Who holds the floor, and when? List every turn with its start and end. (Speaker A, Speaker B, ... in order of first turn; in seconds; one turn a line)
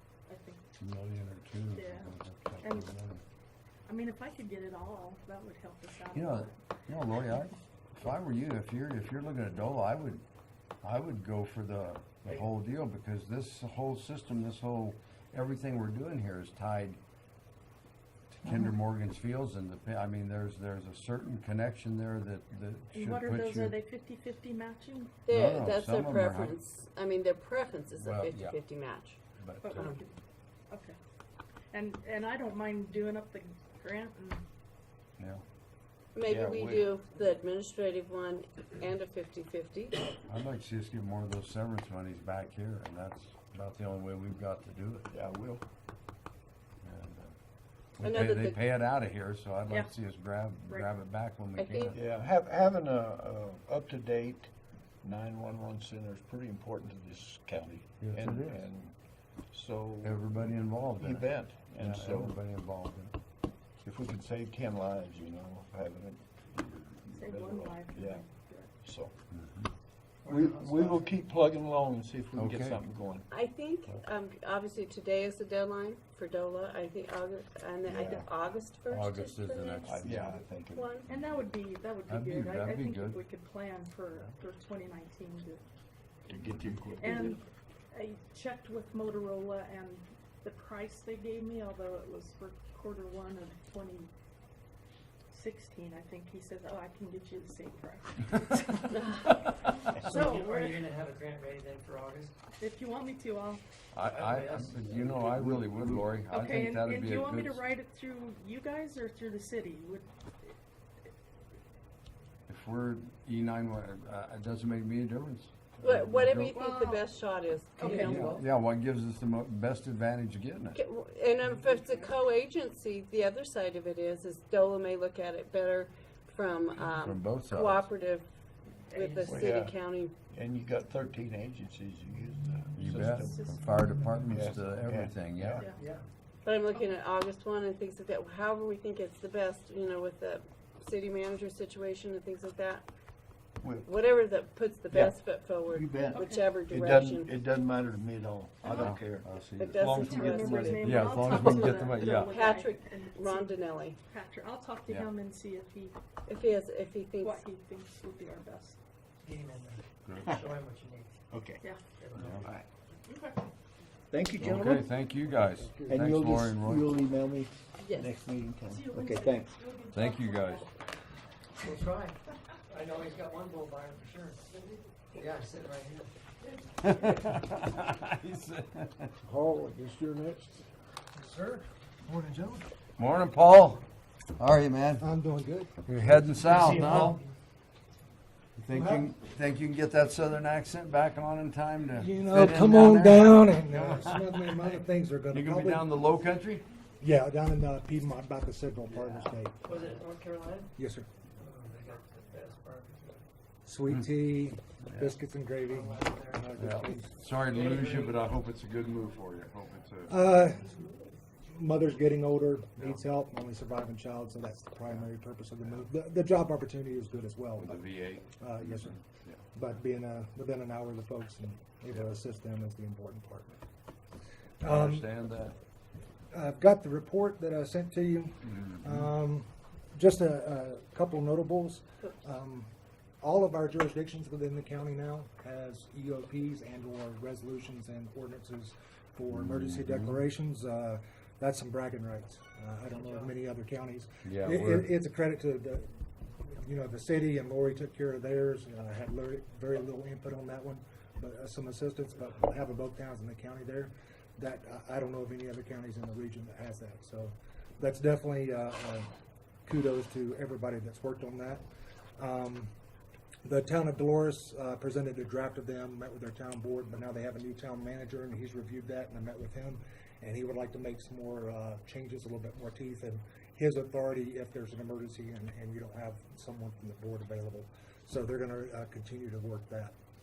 Speaker A: 0.2-0.6
Speaker B: 0.8-3.2
Speaker A: 1.7-2.9
Speaker A: 3.9-6.6
Speaker B: 6.1-10.2
Speaker B: 10.8-17.0
Speaker B: 18.3-23.8
Speaker A: 22.9-25.1
Speaker C: 25.2-29.2
Speaker B: 25.3-26.6
Speaker B: 27.9-28.6
Speaker B: 29.4-29.9
Speaker A: 29.6-30.2
Speaker A: 30.7-30.9
Speaker A: 31.7-34.4
Speaker C: 36.1-40.0
Speaker D: 36.3-36.9
Speaker B: 40.3-45.1
Speaker D: 45.1-45.6
Speaker B: 46.8-47.3
Speaker B: 48.0-52.0
Speaker C: 48.0-48.6
Speaker A: 49.7-49.9
Speaker C: 51.6-51.9
Speaker D: 51.9-54.5
Speaker D: 55.0-58.9
Speaker B: 58.0-58.6
Speaker D: 59.5-62.4
Speaker B: 60.0-63.1
Speaker D: 63.8-68.2
Speaker A: 67.1-68.7
Speaker D: 68.8-69.1
Speaker B: 69.3-69.7
Speaker E: 70.2-71.1
Speaker D: 70.2-73.3
Speaker B: 72.3-72.8
Speaker C: 73.3-81.1
Speaker D: 77.8-78.3
Speaker B: 78.9-80.4
Speaker D: 79.8-81.0
Speaker A: 81.1-85.6
Speaker B: 82.1-83.2
Speaker D: 86.3-87.4
Speaker A: 87.0-94.1
Speaker A: 95.3-98.9
Speaker C: 98.9-99.3
Speaker A: 99.9-100.8
Speaker E: 100.0-102.3
Speaker A: 102.6-103.6
Speaker B: 103.9-107.6
Speaker E: 104.0-105.0
Speaker D: 104.8-106.2
Speaker A: 106.3-110.5
Speaker B: 112.5-116.5
Speaker C: 115.8-118.3
Speaker A: 116.5-117.0
Speaker E: 117.8-118.5
Speaker B: 117.9-120.8
Speaker C: 120.8-128.2
Speaker E: 121.5-122.1
Speaker B: 127.0-127.9
Speaker E: 128.9-129.5
Speaker C: 128.9-130.1
Speaker D: 129.2-133.5
Speaker B: 132.7-135.6
Speaker A: 133.0-134.4
Speaker D: 134.3-135.7
Speaker E: 135.6-136.0
Speaker C: 136.4-142.9
Speaker D: 143.6-144.0
Speaker C: 143.8-147.3
Speaker D: 144.9-151.2
Speaker A: 146.2-146.4
Speaker B: 148.6-152.3
Speaker C: 149.6-154.0
Speaker A: 150.0-155.9
Speaker C: 156.3-157.4
Speaker A: 157.2-158.8
Speaker E: 159.2-161.2
Speaker B: 160.0-160.3
Speaker D: 161.3-161.8
Speaker E: 161.8-162.5
Speaker B: 162.2-162.5
Speaker D: 162.4-162.7
Speaker A: 163.0-163.4
Speaker D: 164.1-164.9
Speaker B: 164.4-166.9
Speaker D: 165.7-169.6
Speaker A: 168.7-170.7
Speaker B: 169.9-170.6
Speaker E: 171.6-172.2
Speaker E: 172.7-176.1
Speaker B: 176.8-179.1
Speaker D: 179.2-180.7
Speaker F: 181.2-182.7
Speaker B: 183.0-183.8
Speaker B: 184.4-185.1
Speaker F: 185.0-185.8
Speaker B: 185.8-187.2
Speaker E: 186.4-187.2
Speaker B: 188.6-194.8
Speaker F: 188.7-189.1
Speaker F: 191.9-195.9
Speaker B: 195.3-196.6
Speaker F: 197.0-199.8
Speaker B: 198.9-199.3
Speaker E: 199.7-200.7
Speaker F: 200.8-201.1
Speaker E: 201.4-203.2
Speaker F: 203.6-207.1
Speaker B: 204.8-205.1
Speaker E: 205.6-206.6
Speaker B: 206.6-210.1
Speaker E: 207.4-208.3
Speaker F: 210.1-210.9
Speaker F: 211.4-219.0
Speaker B: 217.6-219.4
Speaker F: 219.5-223.6
Speaker F: 224.6-225.1
Speaker B: 224.6-225.6
Speaker F: 226.3-232.7
Speaker B: 228.5-229.1
Speaker F: 233.2-259.1
Speaker B: 239.3-240.2
Speaker E: 242.9-243.3
Speaker B: 244.2-244.9
Speaker F: 259.6-261.6
Speaker F: 262.2-262.7
Speaker F: 263.4-279.9